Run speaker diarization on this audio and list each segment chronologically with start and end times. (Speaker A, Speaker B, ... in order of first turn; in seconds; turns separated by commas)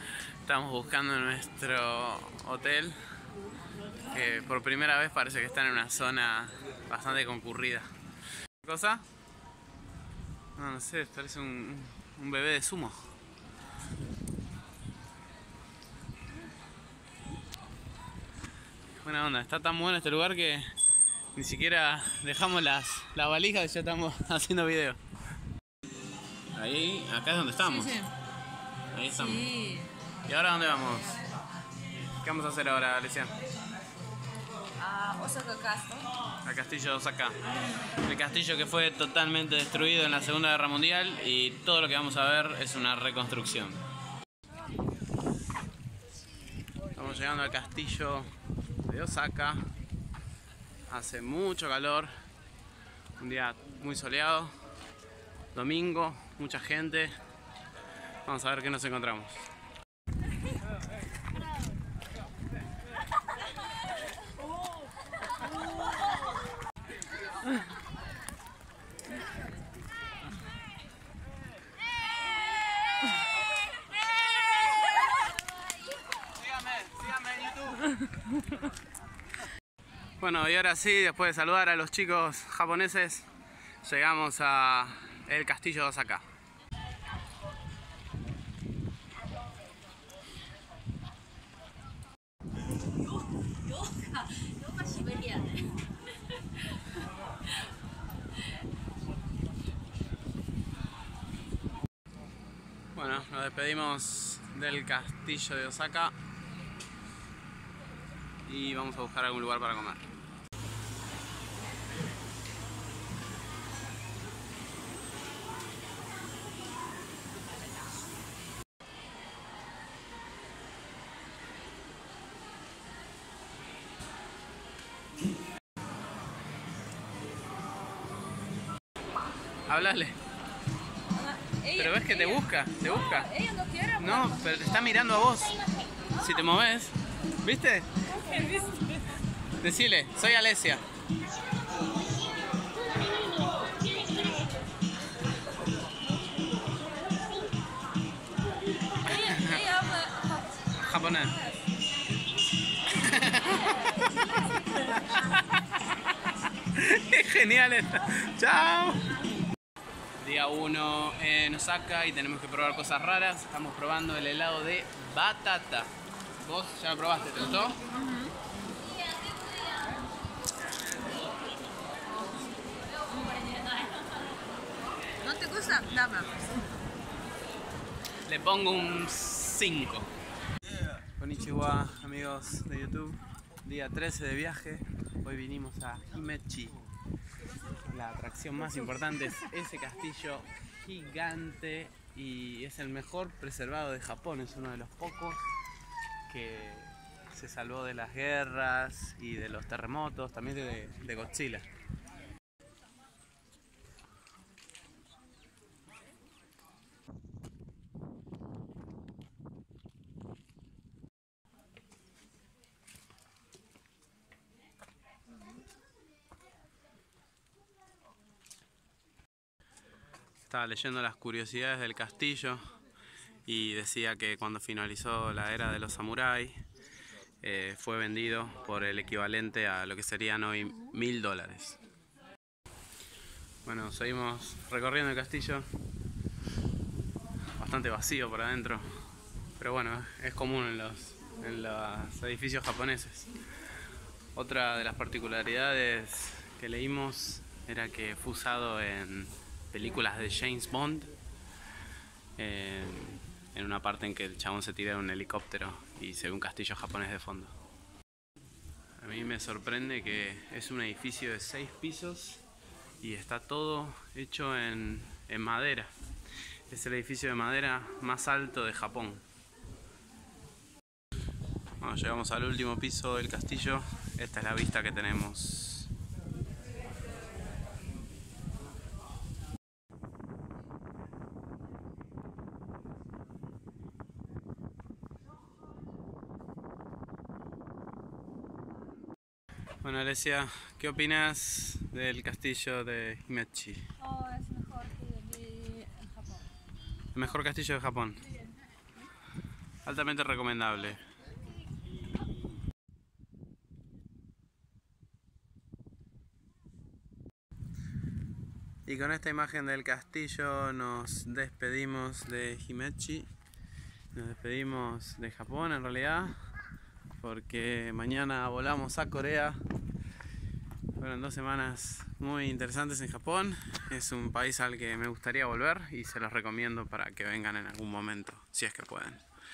Speaker A: 0.4-3.0, Speaker A: 4.1-7.9, Speaker A: 8.6-9.0, Speaker A: 10.6-13.1, Speaker A: 19.0-20.7, Speaker A: 21.3-25.0, Speaker A: 26.5-28.1, Speaker B: 27.8-28.1, Speaker A: 28.9-29.6, Speaker B: 29.2-29.9, Speaker A: 30.2-31.2, Speaker A: 32.2-33.3, Speaker B: 34.8-36.1, Speaker A: 36.4-37.4, Speaker A: 38.0-43.8, Speaker A: 46.9-48.3, Speaker A: 48.8-49.6, Speaker A: 50.9-52.1, Speaker A: 53.2-54.5, Speaker A: 55.5-57.1, Speaker A: 58.2-59.5, Speaker A: 76.3-78.1, Speaker A: 80.2-83.3, Speaker A: 83.8-86.2, Speaker B: 93.8-95.8, Speaker A: 102.9-106.1, Speaker A: 108.5-110.0, Speaker A: 129.7-130.2, Speaker B: 131.1-134.5, Speaker A: 131.8-133.3, Speaker A: 134.0-135.6, Speaker A: 136.1-138.0, Speaker B: 138.1-139.2, Speaker A: 139.6-140.8, Speaker B: 149.0-150.7, Speaker A: 149.1-149.8, Speaker A: 150.8-151.4, Speaker A: 152.9-154.0, Speaker B: 154.0-155.0, Speaker A: 154.7-159.1, Speaker A: 160.2-167.8, Speaker B: 167.9-168.3, Speaker B: 173.2-173.5, Speaker B: 175.2-176.5, Speaker A: 178.2-180.1, Speaker A: 181.2-186.8, Speaker A: 187.8-195.4, Speaker A: 196.3-201.7, Speaker A: 220.4-222.7, Speaker A: 223.4-226.6, Speaker A: 227.4-231.8, Speaker A: 233.6-235.7, Speaker A: 237.6-238.9, Speaker A: 239.6-243.3, Speaker A: 244.3-251.1, Speaker A: 252.4-257.5, Speaker A: 259.0-262.4, Speaker A: 263.0-265.9, Speaker A: 266.7-269.2, Speaker A: 271.8-275.9, Speaker A: 289.8-293.9, Speaker B: 294.0-296.4, Speaker A: 297.1-298.3, Speaker A: 299.8-301.0, Speaker A: 308.9-313.3, Speaker A: 314.1-316.3, Speaker A: 317.2-319.6, Speaker A: 321.0-329.2